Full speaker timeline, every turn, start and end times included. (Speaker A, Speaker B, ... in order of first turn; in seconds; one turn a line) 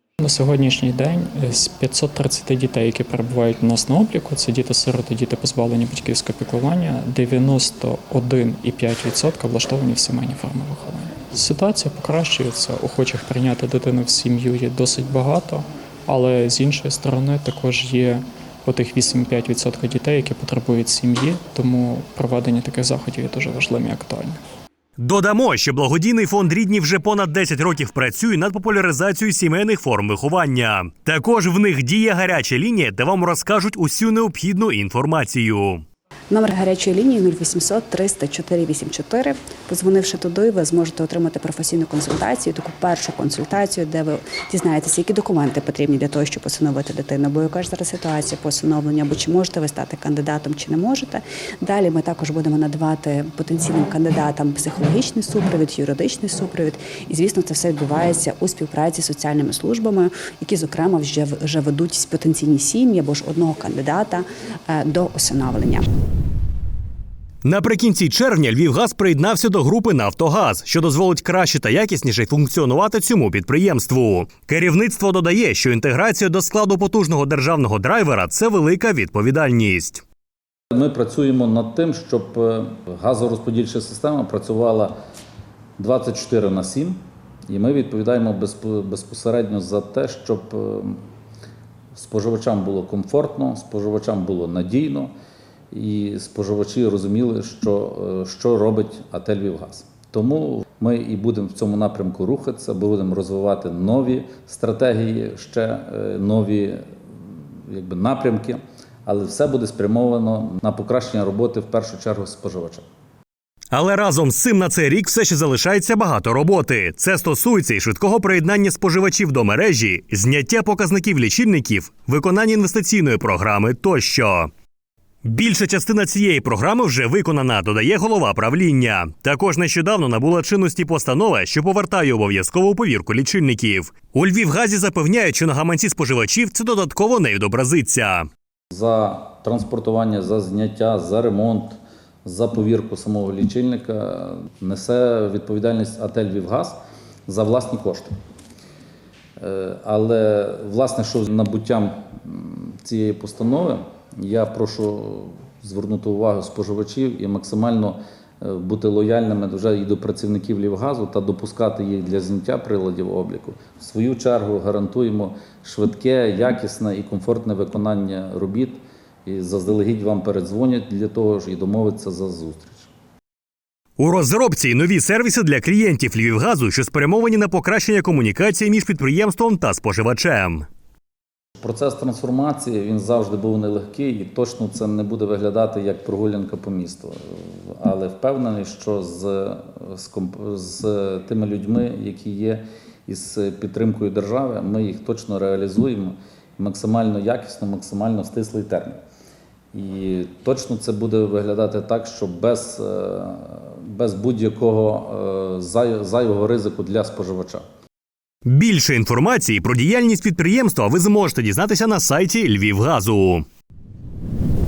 Speaker A: 0.2-24.4
Speaker B: 25.0-35.8
Speaker C: 36.3-65.8
Speaker B: 67.4-80.0
Speaker D: 80.7-84.9
Speaker D: 85.8-91.0
Speaker D: 91.9-95.1
Speaker D: 95.7-106.8
Speaker D: 107.7-112.8
Speaker B: 113.7-124.5
Speaker B: 125.2-138.3
Speaker D: 138.7-148.1
Speaker D: 149.4-172.9
Speaker B: 174.0-180.7
Speaker D: 181.6-199.0
Speaker D: 199.7-207.6
Speaker B: 208.4-213.4